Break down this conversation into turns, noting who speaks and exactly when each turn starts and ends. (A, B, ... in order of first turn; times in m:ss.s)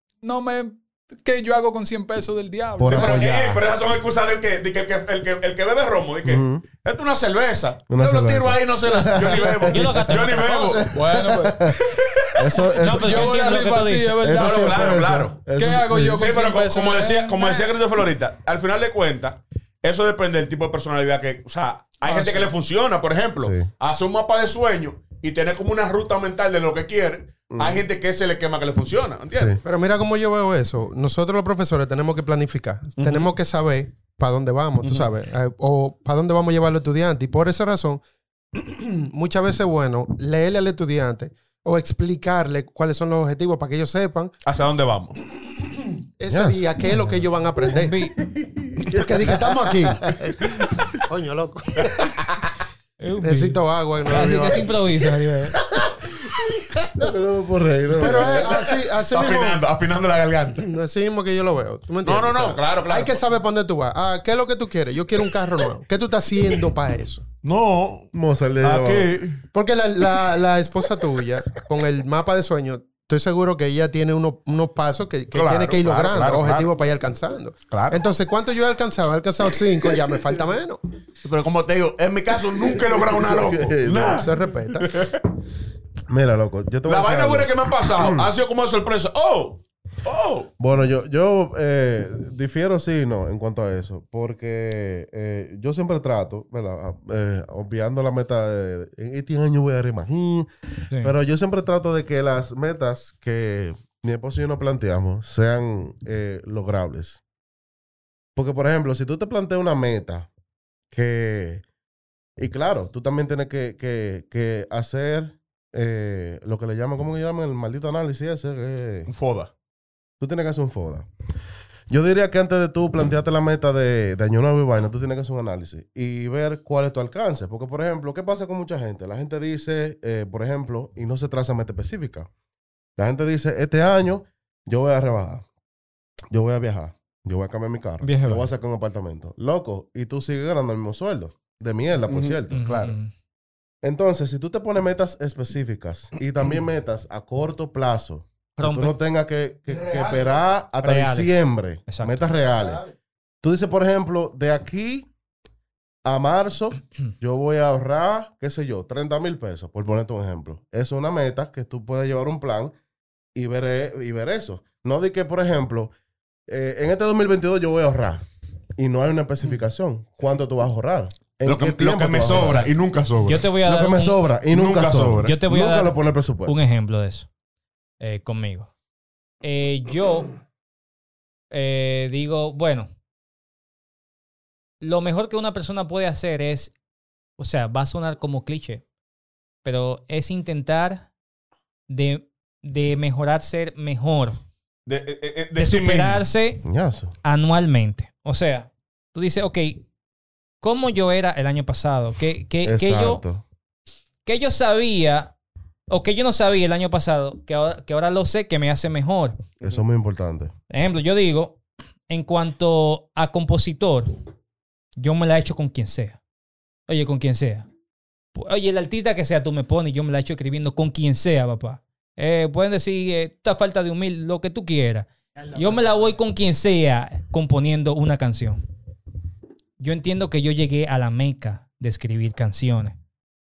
0:00.2-0:03.2 A
0:02.8-0:03.6 B
0:02.8-0:10.9 C
0:06.2-0:06.6 B
0:07.9-0:10.2 B
0:09.7-0:10.9 D
0:10.7-0:11.8 B
0:10.9-0:11.7 A
0:11.8-0:12.6 C
0:12.4-0:13.3 B
0:12.8-0:17.7 A
0:12.8-0:14.2 D
0:14.2-0:16.3 B
0:14.3-0:15.4 C
0:16.2-0:29.6 C
0:22.0-0:22.5 A
0:23.4-0:23.7 B
0:27.5-0:27.8 B
0:29.3-0:29.6 B
0:29.6-0:38.0 E
0:33.0-0:33.3 C
0:34.8-0:35.1 C
0:38.6-0:44.3 E
0:44.4-0:45.2 C
0:46.2-0:48.0 E
0:46.3-0:46.6 B
0:47.7-0:48.2 D
0:48.8-0:50.7 B
0:48.9-0:50.1 E
0:51.1-0:52.2 E
0:51.8-0:52.4 C
0:53.0-0:55.6 D
0:53.2-0:54.8 E
0:57.0-0:58.7 B
0:58.0-0:59.6 E
0:58.0-1:00.6 C
1:00.6-1:07.2 E
1:02.0-1:03.2 C
1:07.4-1:08.1 C
1:08.1-1:09.1 B
1:08.6-1:09.4 C
1:09.5-1:20.8 E
1:15.3-1:16.7 C
1:17.7-1:18.0 C
1:21.2-1:25.2 C
1:22.8-1:24.3 B
1:24.2-1:24.9 E
1:26.1-1:28.3 B
1:26.9-1:30.5 C
1:30.6-1:47.2 B
1:48.4-1:50.3 B
1:50.9-1:51.6 B
1:52.4-1:59.1 B
1:59.1-1:59.5 C
2:00.2-2:01.1 B
2:01.9-2:12.3 B
2:13.0-2:15.5 B
2:16.3-2:22.6 B
2:18.0-2:18.5 D
2:22.1-2:23.0 C
2:22.5-2:23.1 D
2:23.8-2:32.8 B
2:28.6-2:29.0 D
2:29.7-2:30.4 E
2:30.8-2:32.3 D
2:32.4-2:32.9 E
2:33.4-2:35.1 B
2:36.0-2:42.7 B
2:43.4-2:45.9 B
2:46.5-2:48.2 B
2:48.8-2:52.7 B
2:51.4-2:53.5 C
2:52.3-2:52.7 D
2:53.2-2:54.2 D
2:53.6-2:56.6 B
2:54.5-2:55.4 C
2:55.2-2:57.3 D
2:58.0-2:58.7 D
2:59.4-3:00.3 D
3:01.5-3:02.9 D
3:04.8-3:06.7 D
3:07.4-3:08.8 D
3:09.6-3:11.1 D
3:11.9-3:14.4 D
3:14.9-3:16.2 C
3:15.6-3:16.6 D
3:16.6-3:17.1 B
3:17.2-3:19.8 D
3:20.6-3:23.2 D
3:22.6-3:23.4 B
3:24.2-3:25.3 D
3:25.9-3:29.4 D
3:29.6-3:30.5 B
3:30.7-3:34.1 D
3:35.0-3:36.2 D
3:36.9-3:37.7 D
3:38.4-3:48.6 D
3:49.8-3:53.0 D